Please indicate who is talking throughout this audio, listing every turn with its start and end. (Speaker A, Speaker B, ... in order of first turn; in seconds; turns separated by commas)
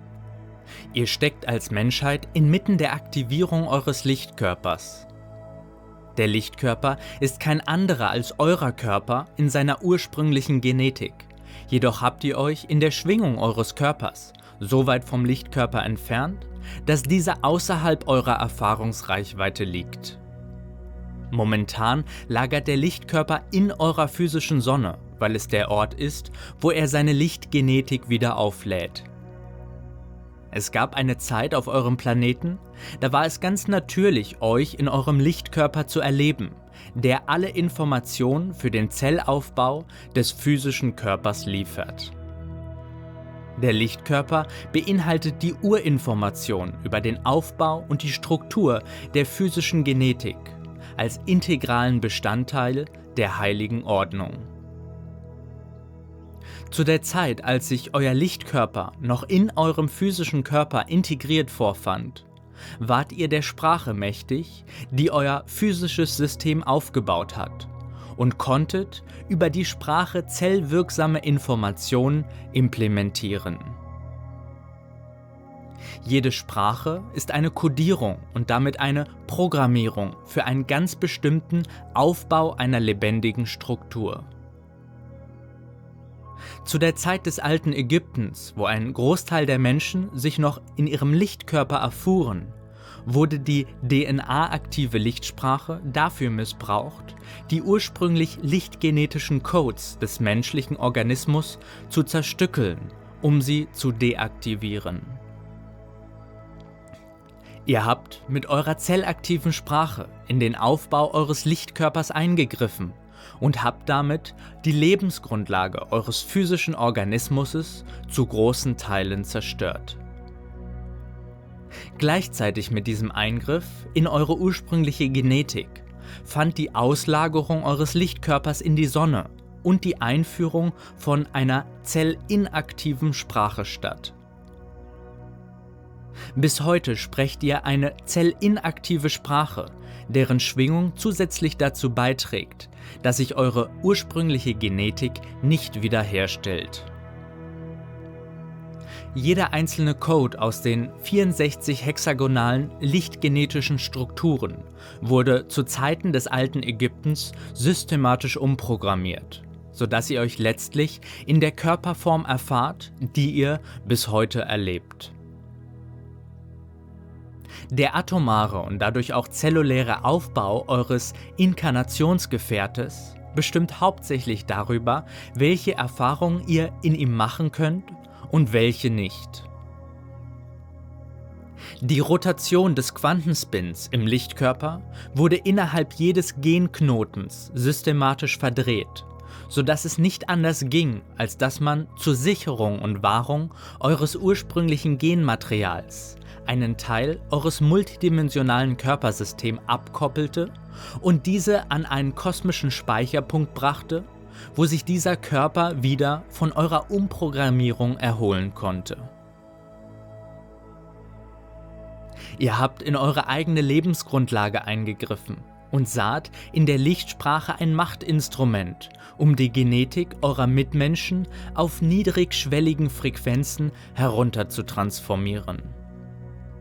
Speaker A: 0.9-5.1, Speaker A: 6.2-20.2, Speaker A: 21.3-29.1, Speaker A: 30.5-42.1, Speaker A: 43.6-54.5, Speaker A: 56.7-62.3, Speaker A: 62.8-73.8, Speaker A: 76.0-84.3, Speaker A: 86.6-105.2, Speaker A: 107.7-120.0, Speaker A: 121.9-134.2, Speaker A: 136.3-146.9, Speaker A: 149.1-165.1, Speaker A: 167.7-179.5, Speaker A: 181.8-209.1, Speaker A: 212.4-225.8